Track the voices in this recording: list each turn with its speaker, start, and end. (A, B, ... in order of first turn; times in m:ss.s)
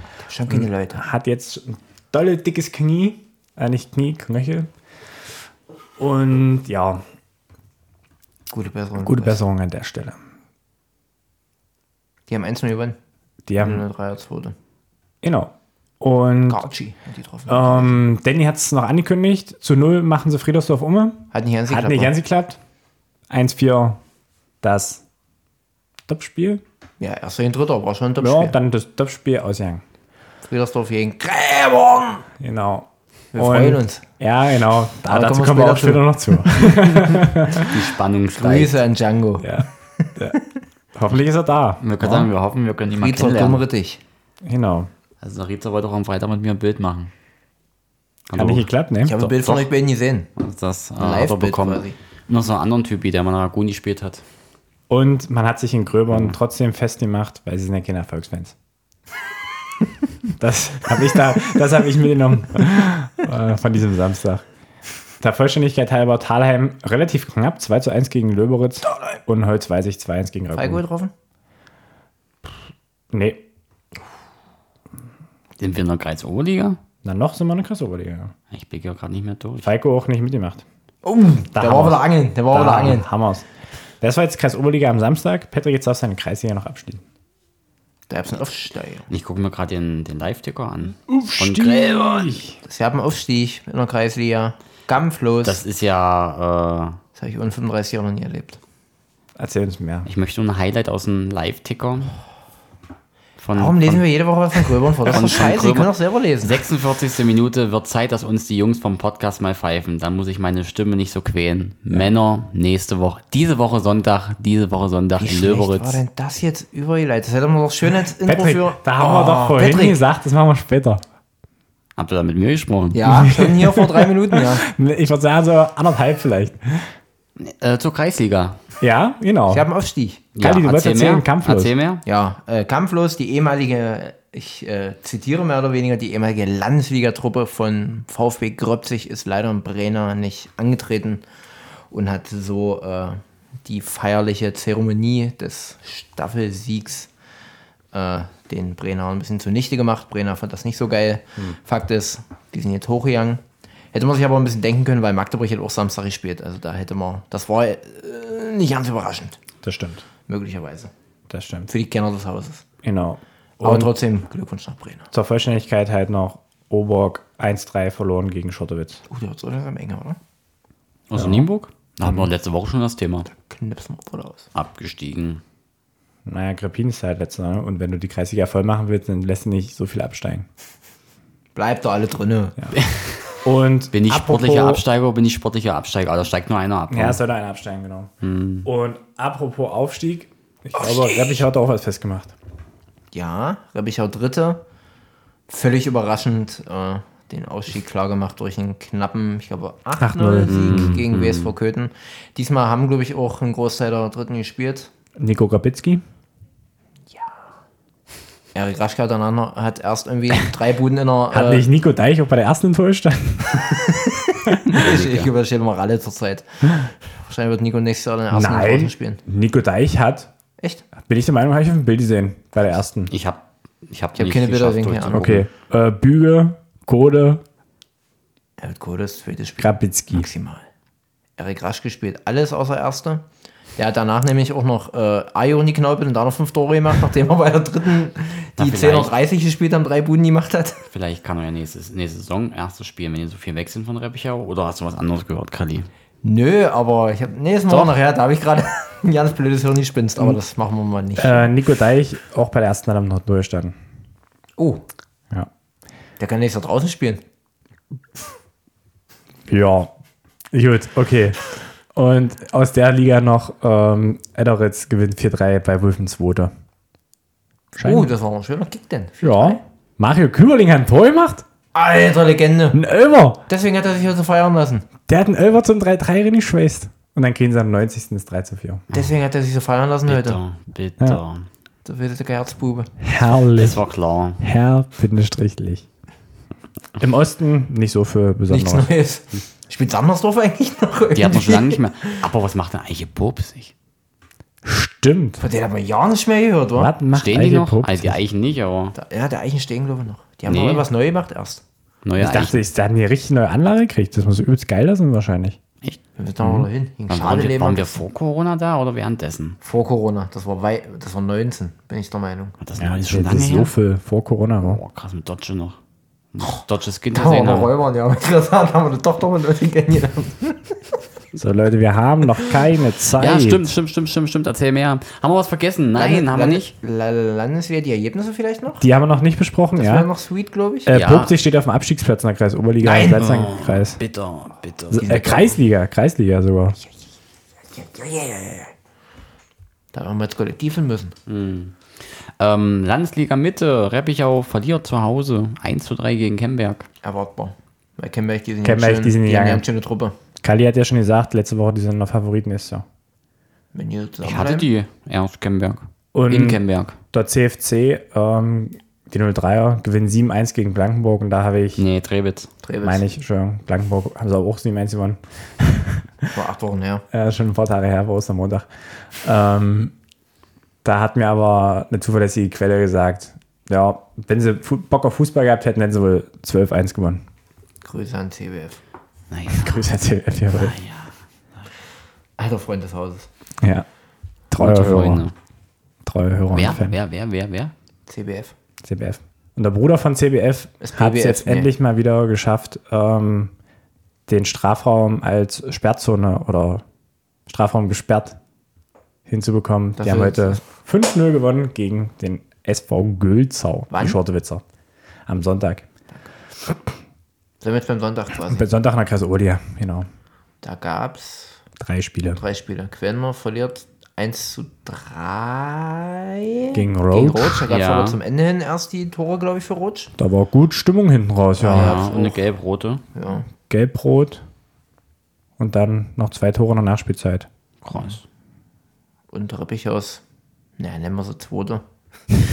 0:00.2-0:01.0 A
0:00.5-0:04.7 B
0:06.0-0:07.0 B
0:08.5-0:09.4 A
0:09.0-0:10.2 B
0:12.3-0:13.0 A
0:13.5-0:13.8 B
0:13.6-0:14.6 A
0:15.2-0:16.6 B
0:16.5-0:18.0 A
0:17.5-0:22.6 B
0:21.3-0:22.2 A
0:23.3-0:24.0 B
0:24.6-0:25.0 B
0:26.1-0:26.6 B
0:27.0-0:28.6 A
0:28.2-0:29.8 B
0:30.4-0:32.2 A
0:32.4-0:37.8 B
0:33.3-0:34.0 A
0:35.1-0:37.2 A
0:37.5-0:38.8 C
0:38.4-0:40.5 A
0:39.4-0:40.4 B
0:41.0-0:42.3 B
0:41.8-0:43.6 C
0:43.0-0:44.0 A
0:44.4-0:44.9 B
0:45.2-0:47.1 C
0:48.3-0:48.7 C
0:48.4-0:49.2 B
0:49.0-0:50.3 A
0:49.2-0:49.7 C
0:50.4-0:54.2 C
0:51.0-0:52.0 A
0:54.9-0:58.6 B
1:00.4-1:04.4 B
1:05.2-1:10.8 B
1:10.5-1:11.1 A
1:13.1-1:13.4 B
1:15.6-1:16.8 C
1:17.0-1:18.3 B
1:18.5-1:19.7 C
1:19.6-1:20.6 B
1:21.0-1:23.1 A
1:21.6-1:23.5 B
1:24.0-1:27.0 B
1:28.1-1:29.1 A
1:29.1-1:32.1 C
1:31.1-1:32.6 B
1:32.2-1:35.6 A
1:35.4-1:37.0 C
1:37.2-1:38.6 A
1:39.4-1:40.1 B
1:40.1-1:42.2 C
1:43.4-1:56.0 C
1:43.6-1:46.6 A
1:55.2-2:00.0 A
1:58.2-2:01.0 B
2:02.0-2:03.1 C
2:02.9-2:04.7 A
2:03.1-2:06.9 B
2:07.4-2:08.6 C
2:08.8-2:09.7 B
2:09.5-2:10.3 A
2:10.4-2:12.0 C
2:10.4-2:11.7 B
2:12.0-2:21.2 A
2:21.9-2:27.1 A
2:27.9-2:33.4 A
2:33.9-2:39.4 A
2:39.6-2:40.0 B
2:40.3-2:40.9 A
2:41.3-2:41.7 B
2:41.7-2:42.7 A
2:42.8-2:43.9 B
2:43.6-2:45.1 A
2:45.1-2:49.0 B
2:49.1-2:50.2 A
2:51.1-2:53.3 C
2:51.2-2:51.5 B
2:52.0-2:52.3 B
2:53.3-2:54.5 A
2:54.6-2:55.4 C
2:56.3-3:00.5 B
3:01.6-3:02.6 A
3:02.7-3:03.3 C
3:03.4-3:04.8 B
3:03.9-3:07.2 C
3:06.9-3:08.1 B
3:08.2-3:08.7 C
3:08.6-3:12.3 B
3:10.8-3:11.4 A
3:13.1-3:14.6 A
3:15.5-3:24.9 A
3:20.0-3:21.0 B
3:20.5-3:21.5 C
3:25.2-3:26.0 B
3:28.6-3:31.6 A
3:31.3-3:33.8 B
3:33.6-3:39.2 A
3:34.8-3:35.3 C
3:38.3-3:40.3 B
3:40.6-3:40.9 A
3:41.0-3:43.1 B
3:43.1-3:45.5 C
3:44.2-3:45.4 A
3:45.1-3:47.4 B
3:48.6-3:50.6 A
3:49.6-3:50.3 B
3:51.4-3:53.2 A
3:53.8-4:00.8 A
3:58.6-3:59.1 C
4:00.9-4:05.9 C
4:06.2-4:11.5 A
4:11.2-4:13.8 B
4:14.6-4:14.8 A
4:16.2-4:17.2 A
4:19.5-4:19.9 B
4:20.5-4:26.5 B
4:27.7-4:28.1 B
4:27.8-4:29.6 A
4:29.2-4:31.4 B
4:31.7-4:32.8 A
4:32.7-4:33.4 B
4:33.5-4:34.9 A
4:35.1-4:38.8 B
4:38.9-4:40.4 A
4:40.1-4:41.5 C
4:41.8-4:42.9 A
4:43.0-4:43.8 B
4:43.5-4:44.4 C
4:44.4-4:45.9 B
4:47.0-4:48.9 B
4:48.5-4:52.2 A
4:51.1-4:53.7 C
4:54.6-4:55.4 B
4:55.4-4:56.9 A
4:56.8-4:58.2 B
4:57.1-4:59.0 C
4:59.0-5:01.6 A
5:00.5-5:00.8 C
5:02.0-5:02.6 C
5:02.2-5:05.6 B
5:05.8-5:09.6 C
5:06.2-5:08.0 A
5:09.6-5:12.6 A
5:12.6-5:13.7 C
5:12.8-5:14.8 B
5:14.6-5:15.8 C
5:16.3-5:17.7 C
5:17.1-5:21.0 A
5:21.4-5:23.7 B
5:23.2-5:26.7 C
5:26.0-5:28.8 A
5:28.8-5:30.1 B
5:29.8-5:30.9 A
5:30.9-5:34.0 B
5:30.9-5:31.3 C
5:32.8-5:33.2 A
5:33.2-5:35.4 C
5:34.9-5:36.8 B
5:35.0-5:35.6 A
5:37.7-5:38.7 A
5:39.9-5:41.2 A
5:41.3-5:46.9 C
5:47.0-5:50.1 A
5:48.6-5:49.6 B
5:50.4-5:52.8 B
5:53.7-5:54.7 A
5:54.2-5:57.0 C
5:56.1-5:56.6 B
5:57.1-6:01.8 B
6:01.8-6:02.5 C
6:02.6-6:03.0 A
6:02.8-6:06.3 B
6:06.3-6:07.0 A
6:07.1-6:08.7 B
6:09.2-6:09.9 B
6:10.8-6:17.2 B
6:17.8-6:18.8 A
6:19.3-6:19.9 C
6:19.5-6:20.7 B
6:20.5-6:21.2 C
6:22.4-6:23.3 A
6:23.6-6:23.9 B
6:24.5-6:25.3 B
6:24.6-6:25.3 C
6:26.0-6:27.0 B
6:26.5-6:27.7 C
6:28.1-6:28.6 A
6:28.8-6:33.5 B
6:30.8-6:31.7 A
6:34.3-6:36.8 B
6:37.5-6:38.4 B
6:39.3-6:44.6 B
6:40.0-6:40.6 A
6:43.9-6:44.2 A
6:45.3-6:45.9 B
6:47.6-6:48.7 A
6:48.4-6:50.1 B
6:50.6-6:51.6 A
6:51.8-6:52.4 B
6:52.4-7:00.1 A
6:56.7-6:57.6 B
6:57.7-6:58.2 C
7:00.2-7:02.1 B
7:01.6-7:02.4 A
7:01.7-7:03.0 C
7:03.1-7:03.5 A
7:03.7-7:04.4 B
7:05.6-7:07.5 B
7:07.8-7:08.2 C
7:09.3-7:10.2 A
7:10.8-7:11.8 A